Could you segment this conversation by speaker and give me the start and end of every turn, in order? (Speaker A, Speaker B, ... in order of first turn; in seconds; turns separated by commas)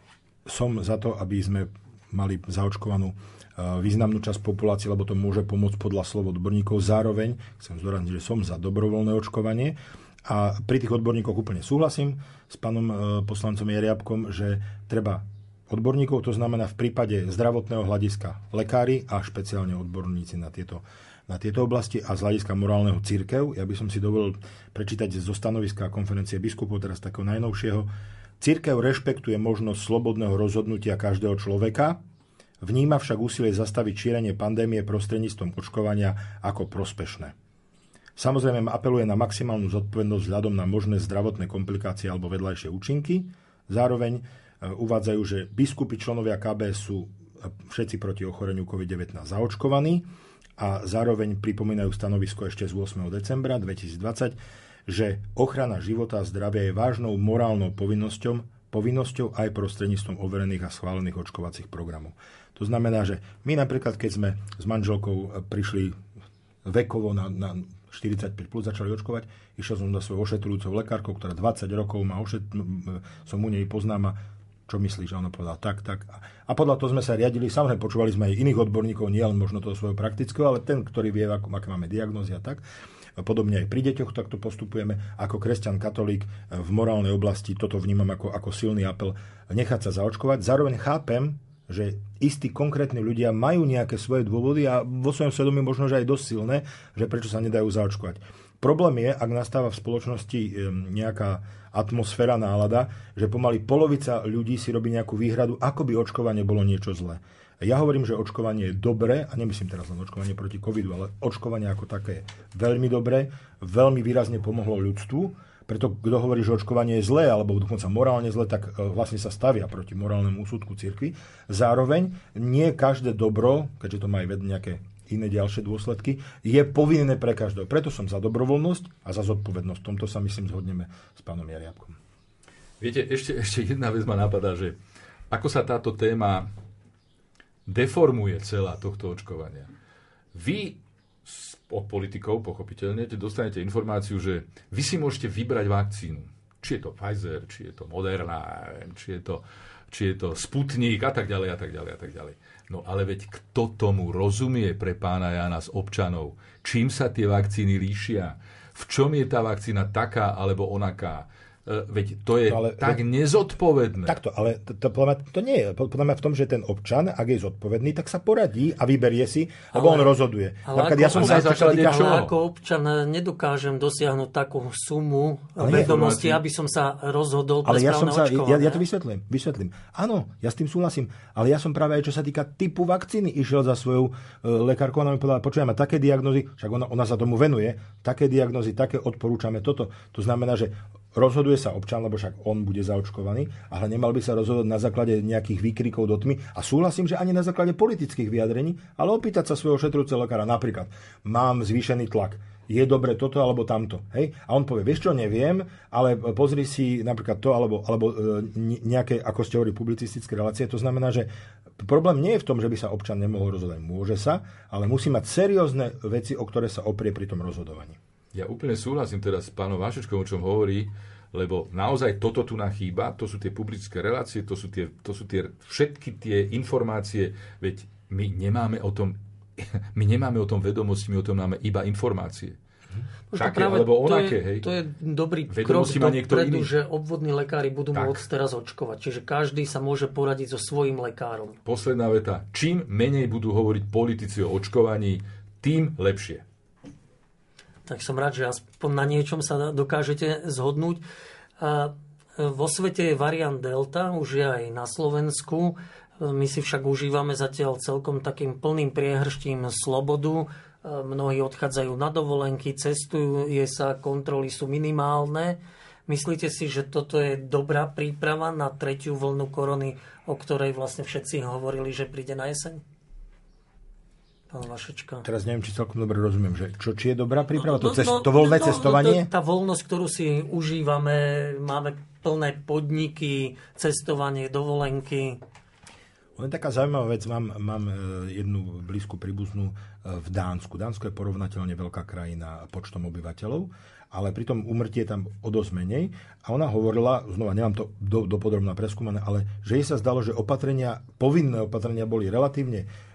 Speaker A: 0.5-27.9, Speaker A: 28.4-32.0, Speaker A: 32.6-37.3, Speaker A: 38.2-50.0, Speaker A: 50.6-66.0, Speaker A: 66.6-82.6, Speaker A: 83.2-131.9, Speaker B: 132.8-134.8, Speaker B: 135.3-136.5, Speaker B: 137.7-139.7, Speaker B: 140.3-164.2, Speaker A: 162.5-163.0, Speaker A: 164.1-172.2, Speaker C: 169.7-178.8, Speaker B: 171.0-172.3, Speaker A: 175.6-175.9, Speaker B: 175.6-176.4, Speaker A: 177.6-218.0, Speaker B: 218.3-232.6, Speaker C: 233.3-241.6, Speaker B: 233.3-234.7, Speaker B: 235.5-236.7, Speaker B: 237.9-238.2, Speaker B: 241.7-246.4, Speaker C: 247.8-251.0, Speaker C: 251.6-272.8, Speaker C: 274.5-275.2, Speaker A: 275.2-279.3, Speaker C: 277.6-285.4, Speaker A: 286.4-302.9